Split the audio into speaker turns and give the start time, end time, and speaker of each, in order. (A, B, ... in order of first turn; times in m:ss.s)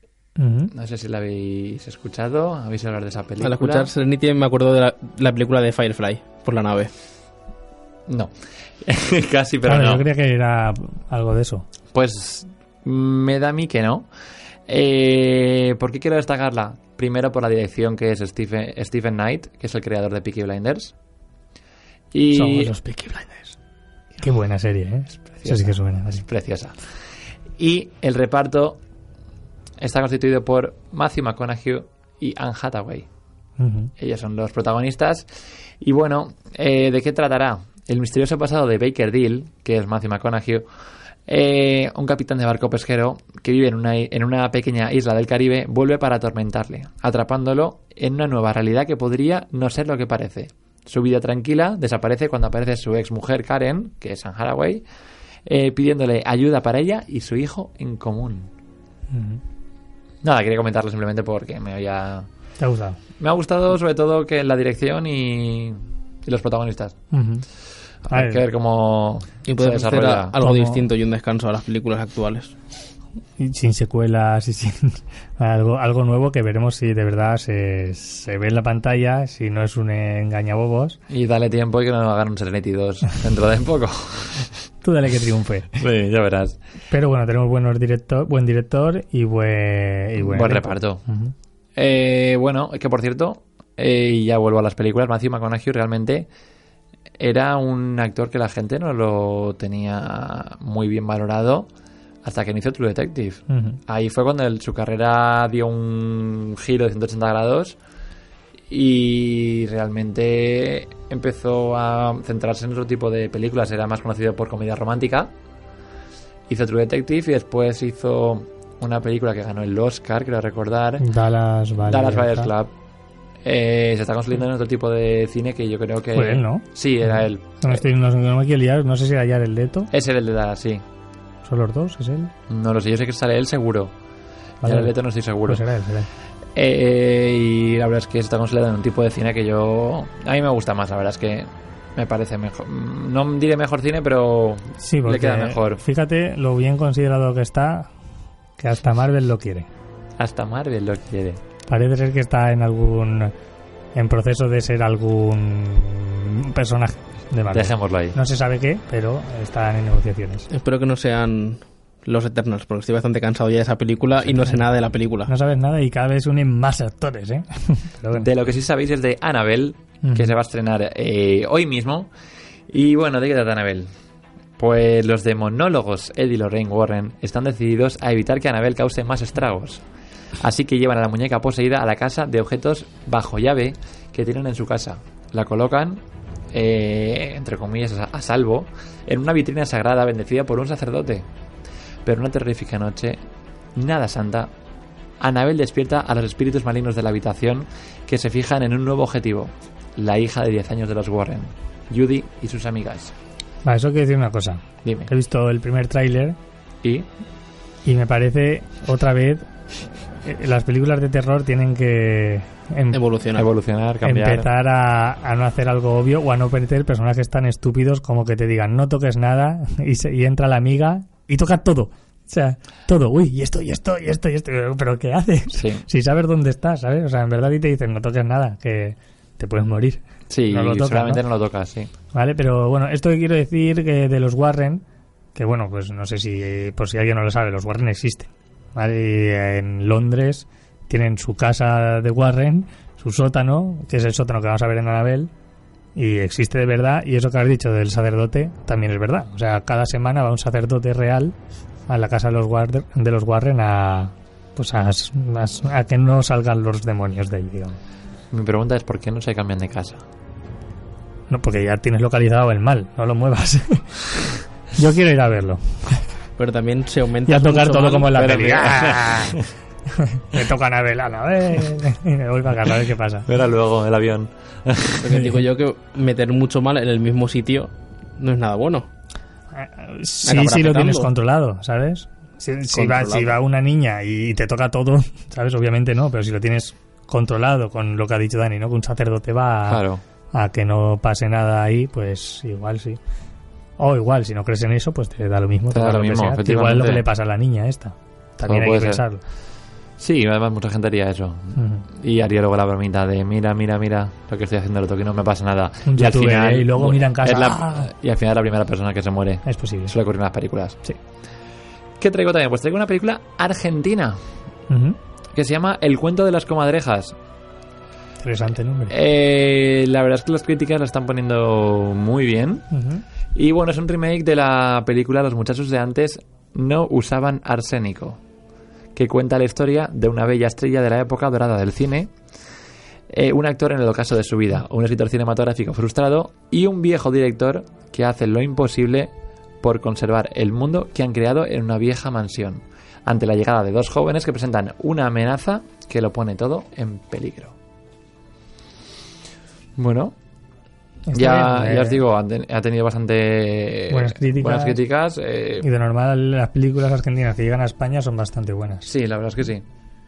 0:00.4-0:00.7 A
0:00.7-0:03.9 B
0:03.4-0:06.9 C
0:08.8-0:10.0 B
0:09.7-0:11.7 A
0:11.9-0:14.1 B
0:14.7-0:20.9 B
0:22.1-0:22.7 B
0:22.3-0:23.6 A
0:24.2-0:26.2 A
0:25.4-0:26.8 B
0:27.6-0:28.8 B
0:29.8-0:33.1 B
0:33.6-0:33.9 A
0:34.0-0:35.3 B
0:35.8-0:40.7 B
0:41.3-0:54.8 B
0:55.5-0:58.5 B
0:59.1-0:59.4 A
1:00.2-1:02.3 B
1:02.6-1:03.0 A
1:03.2-1:07.0 B
1:07.1-1:07.4 A
1:08.0-1:10.4 B
1:08.1-1:08.4 A
1:09.5-1:12.5 C
1:10.4-1:10.8 A
1:13.4-1:21.0 A
1:21.1-1:24.5 B
1:24.8-1:25.8 A
1:25.8-1:26.6 B
1:26.9-1:31.3 A
1:30.2-1:31.0 B
1:31.8-1:36.3 B
1:37.2-1:41.7 B
1:42.2-1:47.8 B
1:43.5-1:43.8 A
1:48.7-1:55.3 B
1:56.5-2:01.0 B
2:01.0-2:02.5 A
2:01.8-2:02.7 B
2:03.4-2:07.8 B
2:06.1-2:06.7 A
2:07.6-2:09.9 A
2:09.9-2:10.8 B
2:11.4-2:12.3 A
2:12.5-2:13.9 B
2:14.6-2:15.6 B
2:14.6-2:14.9 A
2:15.5-2:16.1 A
2:16.6-2:25.8 B
2:24.8-2:27.9 A
2:28.6-2:29.7 A
2:30.2-2:31.4 B
2:31.7-2:33.3 A
2:34.0-2:40.5 A
2:37.5-2:38.2 B
2:40.5-2:45.3 C
2:45.3-2:48.3 A
2:48.2-2:52.1 B
2:50.0-2:50.3 A
2:52.7-2:53.9 B
2:54.6-2:59.8 B
3:00.4-3:06.0 B
3:06.5-3:11.3 B
3:12.1-3:13.2 B
3:13.8-3:14.5 B
3:15.2-3:23.1 B
3:23.6-3:26.4 A
3:24.8-3:25.1 B
3:27.9-3:29.5 A
3:30.2-3:33.0 A
3:32.9-3:33.5 C
3:33.4-3:34.5 B
3:34.0-3:51.2 A
3:45.6-3:45.8 B
3:50.3-3:51.9 B
3:52.1-3:54.8 A
3:55.4-4:05.3 A
4:06.0-4:11.4 A
4:11.9-4:17.8 A
4:18.3-4:20.0 B
4:21.3-4:24.1 A
4:24.8-4:26.0 A
4:26.4-4:28.3 C
4:27.3-4:29.4 A
4:28.1-4:29.4 B
4:29.9-4:33.3 A
4:33.3-4:35.2 B
4:35.0-4:38.9 C
4:39.5-4:53.0 A
4:40.2-4:41.1 C
4:42.7-4:43.4 C
4:49.7-4:50.0 B
4:53.8-4:59.2 A
4:55.7-4:57.0 B
4:58.5-4:59.0 B
5:00.0-5:10.8 B
5:01.6-5:01.8 A
5:05.9-5:07.9 A
5:09.5-5:09.9 A
5:12.0-5:14.2 B
5:14.7-5:15.0 A
5:15.4-5:17.2 B
5:18.2-5:19.0 A
5:18.9-5:22.7 B
5:22.7-5:23.0 A
5:23.4-5:28.2 B
5:29.0-5:32.1 B
5:33.1-5:39.1 B
5:39.6-5:47.5 B
5:49.8-5:50.2 B
5:51.1-5:52.0 A
5:51.1-5:55.7 B
5:53.9-5:54.8 A
5:55.6-5:58.9 A
5:58.9-5:59.6 B